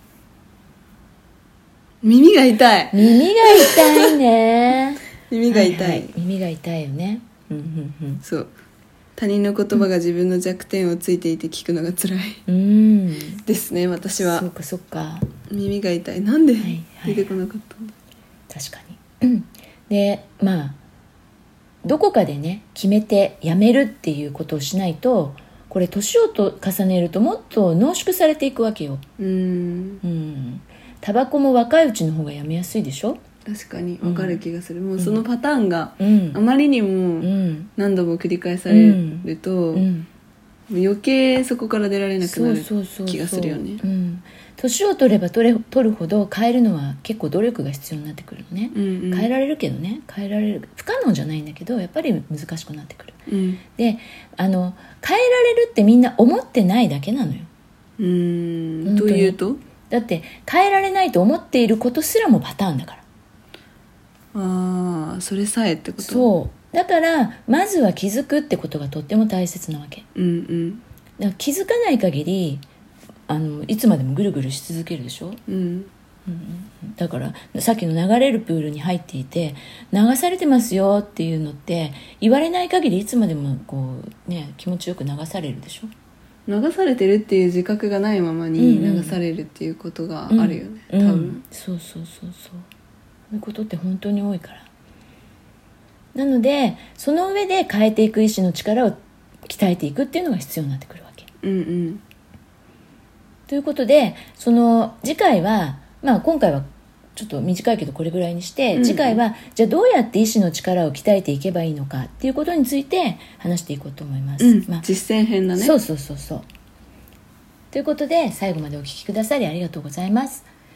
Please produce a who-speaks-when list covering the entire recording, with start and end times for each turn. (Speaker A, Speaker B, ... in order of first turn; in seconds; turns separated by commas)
Speaker A: 2.0-3.0, Speaker B: 2.9-8.2, Speaker A: 3.6-4.1, Speaker A: 5.3-6.2, Speaker A: 8.2-8.5, Speaker A: 9.2-12.4, Speaker B: 12.5-13.4, Speaker A: 13.4-14.5, Speaker B: 14.2-15.3, Speaker A: 15.5-17.9, Speaker B: 16.6-17.4, Speaker B: 18.5-20.8, Speaker B: 21.8-29.0, Speaker A: 29.2-30.0, Speaker B: 30.0-33.2, Speaker A: 33.5-39.9, Speaker B: 34.0-34.4, Speaker B: 35.0-35.2, Speaker B: 36.0-36.4, Speaker B: 37.2-37.7, Speaker B: 38.7-40.1, Speaker A: 40.7-43.8, Speaker B: 42.2-53.2, Speaker A: 48.7-49.3, Speaker A: 53.3-53.6, Speaker B: 53.8-57.5, Speaker A: 58.0-59.6, Speaker B: 58.9-59.4, Speaker B: 59.9-63.0, Speaker A: 64.3-66.3, Speaker B: 66.0-70.0, Speaker A: 70.2-70.8, Speaker B: 71.2-72.6, Speaker B: 73.3-75.4, Speaker A: 75.5-75.9, Speaker B: 76.3-85.9, Speaker A: 86.5-91.4, Speaker B: 88.6-89.2, Speaker B: 90.3-92.7, Speaker B: 93.3-94.7, Speaker B: 96.2-101.3, Speaker A: 101.4-102.0, Speaker B: 103.5-114.8, Speaker A: 108.7-109.2, Speaker A: 114.4-115.8, Speaker B: 115.6-116.5, Speaker B: 117.7-120.5